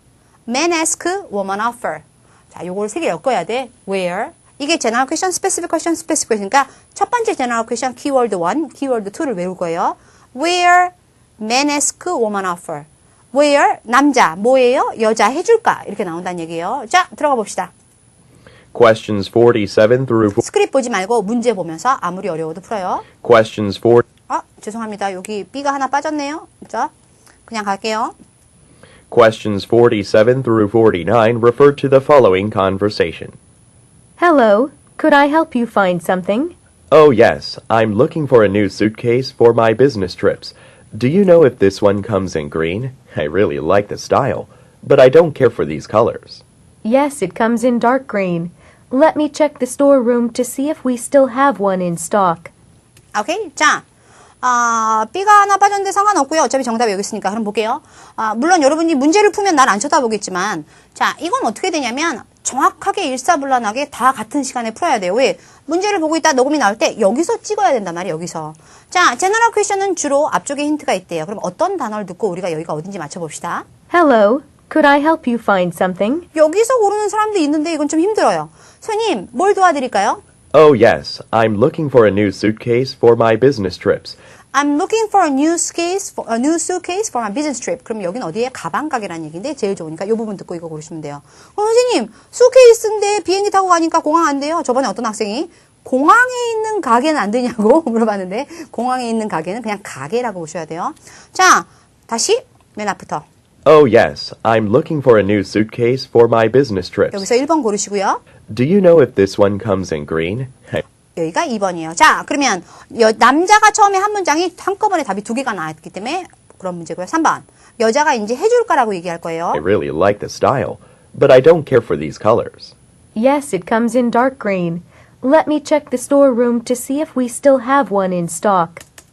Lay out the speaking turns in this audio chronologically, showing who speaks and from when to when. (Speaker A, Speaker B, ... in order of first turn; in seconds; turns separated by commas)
Speaker A: 0.5-17.7, Speaker B: 18.7-20.4, Speaker A: 20.4-23.1, Speaker B: 23.2-24.0, Speaker A: 24.3-26.9, Speaker A: 27.5-28.1, Speaker B: 29.1-33.4, Speaker C: 34.2-36.5, Speaker B: 36.9-46.4, Speaker C: 46.8-52.5, Speaker A: 53.1-53.8, Speaker A: 54.4-73.7, Speaker C: 73.9-76.2, Speaker A: 76.3-80.2, Speaker B: 80.5-84.2, Speaker A: 84.5-103.2, Speaker B: 103.7-107.2, Speaker A: 107.1-108.2, Speaker B: 108.5-110.8, Speaker A: 111.2-119.6, Speaker B: 119.5-122.7, Speaker C: 123.1-128.8